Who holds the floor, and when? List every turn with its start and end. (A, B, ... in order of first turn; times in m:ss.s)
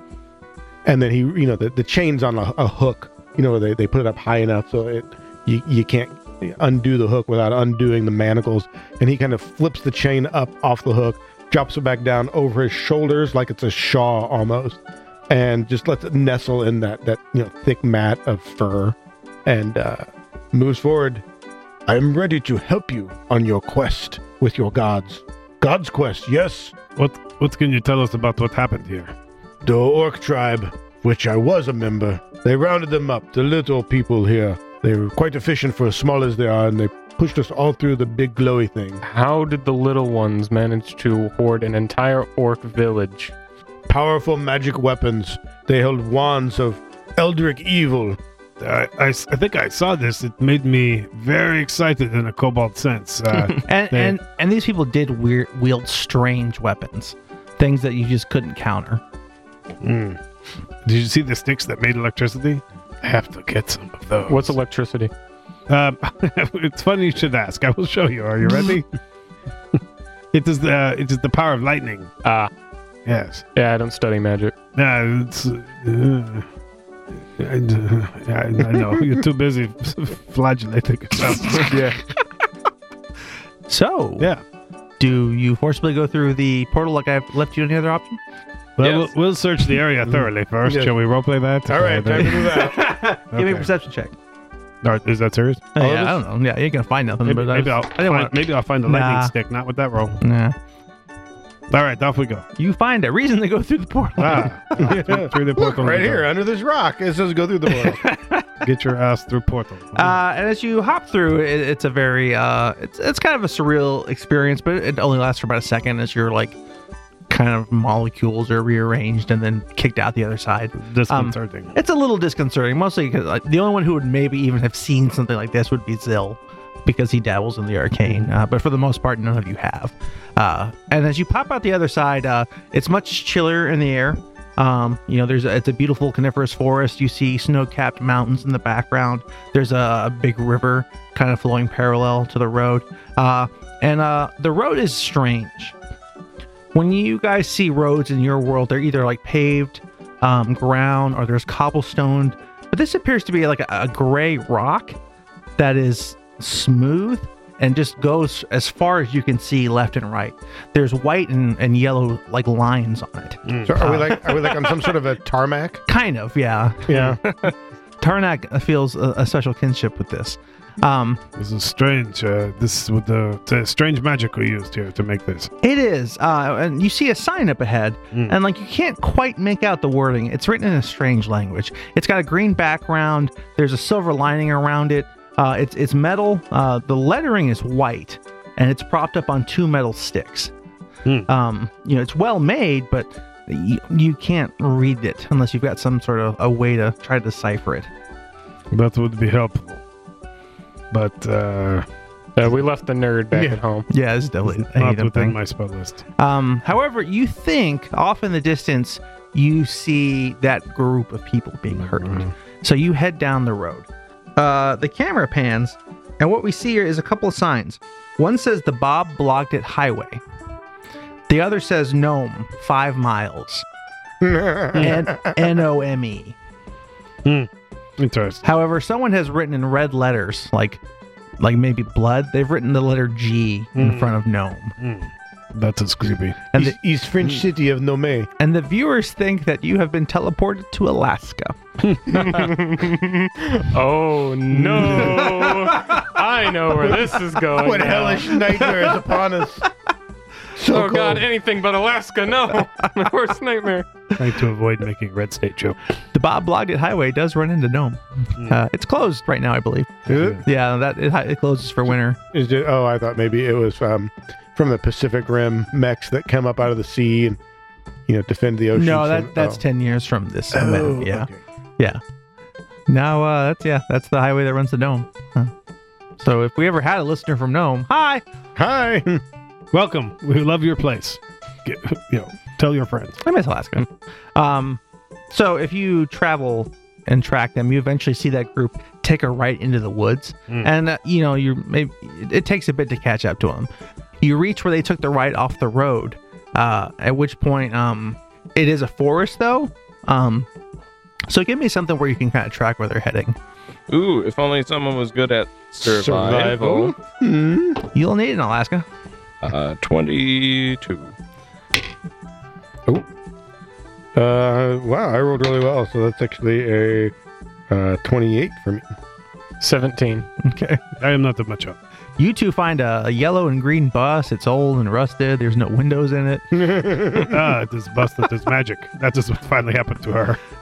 0:00.8-0:21.2 A
0:21.9-0:26.8 A
0:27.0-0:29.1 B
0:29.6-0:39.0 A
0:39.0-0:43.3 C
0:43.9-0:48.2 A
0:48.6-0:54.2 B
0:53.6-0:59.0 D
0:59.8-1:00.2 B
1:00.8-1:04.6 B
1:04.3-1:05.1 C
1:05.7-1:08.9 B
1:10.3-1:12.1 B
1:12.2-1:12.5 C
1:13.1-1:13.4 B
1:13.5-1:14.5 C
1:14.8-1:16.5 B
1:17.3-1:21.8 B
1:21.7-1:22.0 C
1:23.7-1:24.3 D
1:25.0-1:28.2 D
1:28.8-1:32.7 B
1:28.8-1:29.1 E
1:30.1-1:30.9 A
1:31.7-1:33.0 A
1:32.2-1:34.2 D
1:33.3-1:33.7 B
1:34.8-1:35.7 B
1:35.8-1:39.3 D
1:35.8-1:36.2 A
1:37.2-1:40.2 B
1:40.2-1:40.6 D
1:41.7-1:42.4 B
1:42.6-1:44.9 D
1:44.2-1:46.3 B
1:44.8-1:48.0 A
1:47.7-1:48.5 D
1:48.6-1:50.2 B
1:50.0-1:56.6 D
1:57.3-2:25.8 D
2:00.8-2:01.8 B
2:26.7-2:35.0 D
2:35.6-2:44.7 D
2:43.5-2:43.8 B
2:43.6-2:45.8 A
2:45.9-2:46.9 D
2:46.9-2:47.2 A
2:46.9-2:47.2 B
2:48.0-2:51.2 D
2:51.4-2:55.5 B
2:55.6-3:10.5 D
3:11.3-3:17.9 D
3:18.7-3:19.8 B
3:20.9-3:21.9 B
3:22.4-3:23.9 C
3:23.3-3:23.6 A
3:23.9-3:25.4 D
3:24.5-3:26.0 B
3:26.2-3:40.2 D
3:31.7-3:32.3 B
3:41.3-3:43.7 D
3:44.2-3:45.4 A
3:44.7-3:45.1 B
3:44.8-3:46.4 D
3:47.2-3:48.4 B
3:48.4-3:50.8 D
3:51.4-3:54.8 D
3:53.8-3:54.2 B
3:54.8-3:56.4 B
3:56.5-3:56.8 D
3:56.6-3:58.3 A
3:58.4-4:01.6 D
4:01.8-4:02.5 B
4:02.1-4:08.8 C
4:04.5-4:05.2 B
4:06.9-4:09.7 A
4:10.6-4:11.3 A
4:10.7-4:13.9 C
4:14.2-4:15.8 B
4:16.1-4:22.2 D
4:20.1-4:20.4 B
4:22.3-4:27.4 A
4:28.1-4:29.6 A
4:28.7-4:31.3 D
4:30.5-4:31.4 A
4:32.9-4:35.5 D
4:36.2-4:38.2 D
4:38.6-4:39.2 A
4:39.7-4:43.2 B
4:43.2-4:53.7 D
4:54.2-5:00.5 D
5:01.3-5:03.4 D
5:03.9-5:07.0 E
5:05.8-5:07.8 A
5:07.9-5:08.9 D
5:09.4-5:11.1 E
5:14.2-5:17.1 A
5:17.7-5:18.9 A
5:19.6-5:20.3 C
5:20.4-5:20.8 D
5:21.0-5:21.8 B
5:22.2-5:26.5 D
5:26.5-5:27.4 A
5:27.2-5:30.4 B